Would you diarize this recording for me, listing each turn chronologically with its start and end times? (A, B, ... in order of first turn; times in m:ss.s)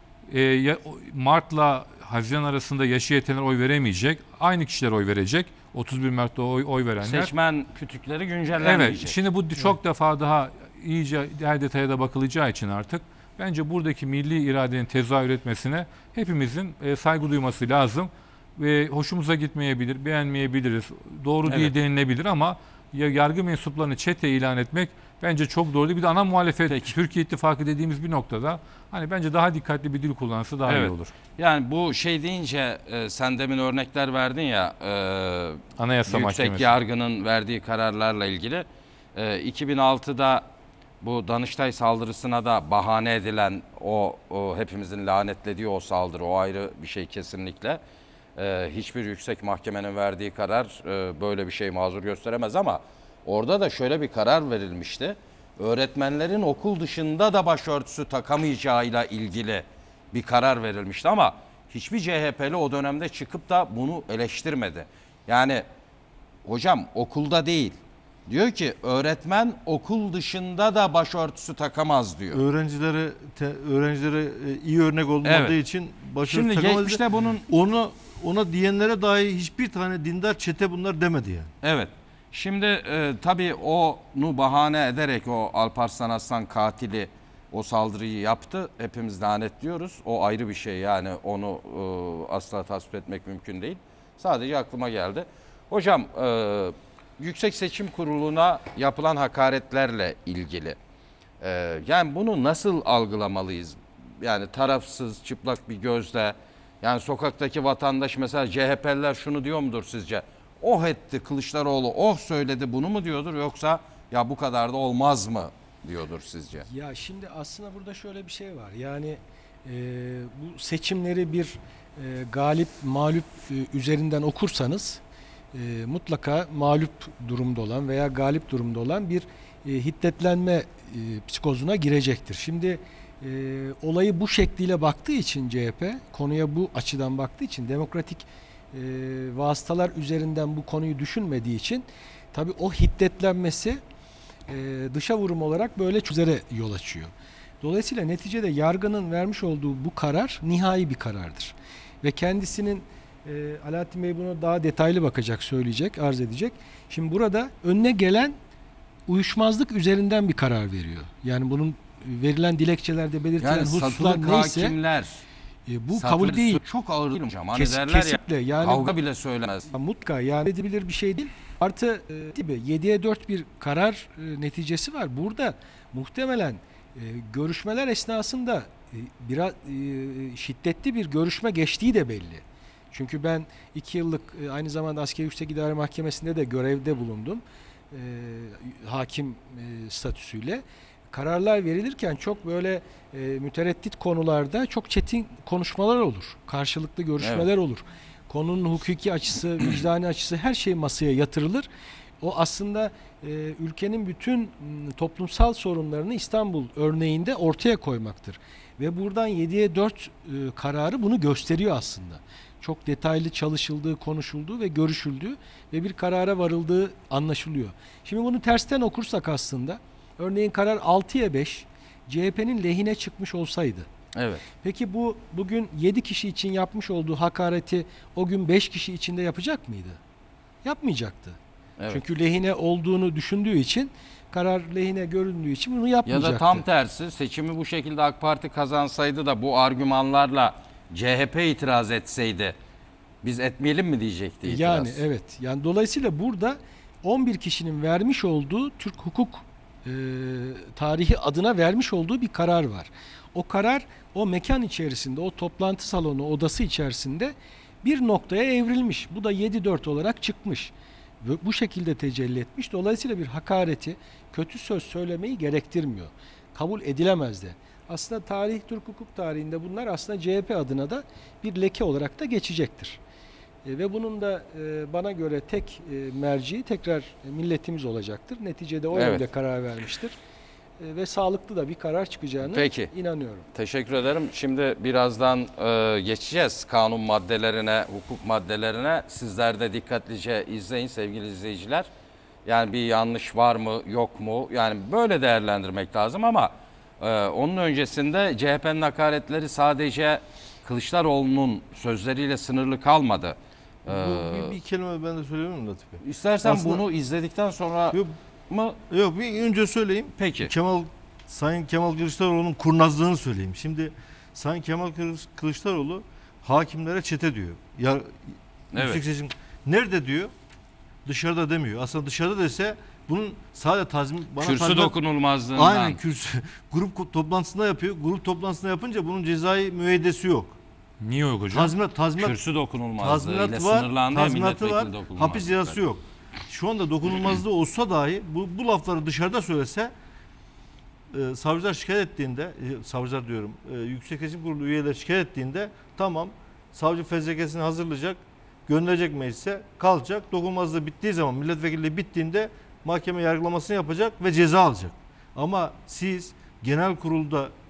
0:00.3-0:07.3 A
0:07.0-0:09.2 B
0:08.6-0:31.1 A
0:26.7-0:26.9 B
0:30.6-0:40.4 B
0:35.8-0:36.8 A
0:41.0-0:47.8 B
0:48.4-1:05.6 B
1:06.4-1:12.4 B
1:12.3-1:21.5 C
1:15.2-1:15.5 B
1:16.2-1:17.5 B
1:21.6-1:40.8 B
1:41.4-1:56.6 B
1:56.6-2:05.0 D
2:05.5-2:23.8 D
2:24.5-2:38.4 D
2:39.1-2:44.8 D
2:43.4-2:45.2 B
2:45.7-2:46.6 D
2:45.9-2:49.7 B
2:47.5-2:49.0 D
2:49.7-3:21.7 D
3:17.2-3:17.4 B
3:22.2-3:43.9 D
3:44.1-3:44.4 B
3:44.5-3:50.0 D
3:50.6-3:51.4 D
3:51.9-3:56.6 D
3:56.0-4:02.6 B
4:03.2-4:05.0 B
4:04.4-4:33.0 D
4:33.6-4:40.2 D
4:38.9-4:39.2 B
4:40.8-4:43.4 D
4:42.4-4:42.9 B
4:43.5-4:51.9 B
4:52.4-5:04.6 B
5:03.9-5:06.8 C
5:06.0-5:08.8 B
5:08.9-5:20.3 C
5:10.2-5:10.5 B
5:18.7-5:19.0 B
5:21.0-5:24.9 C
5:24.4-5:26.0 B
5:25.5-5:30.6 C
5:31.0-5:31.7 A
5:31.5-5:32.4 C
5:32.2-5:35.8 B
5:33.0-5:39.9 C
5:41.1-5:57.5 C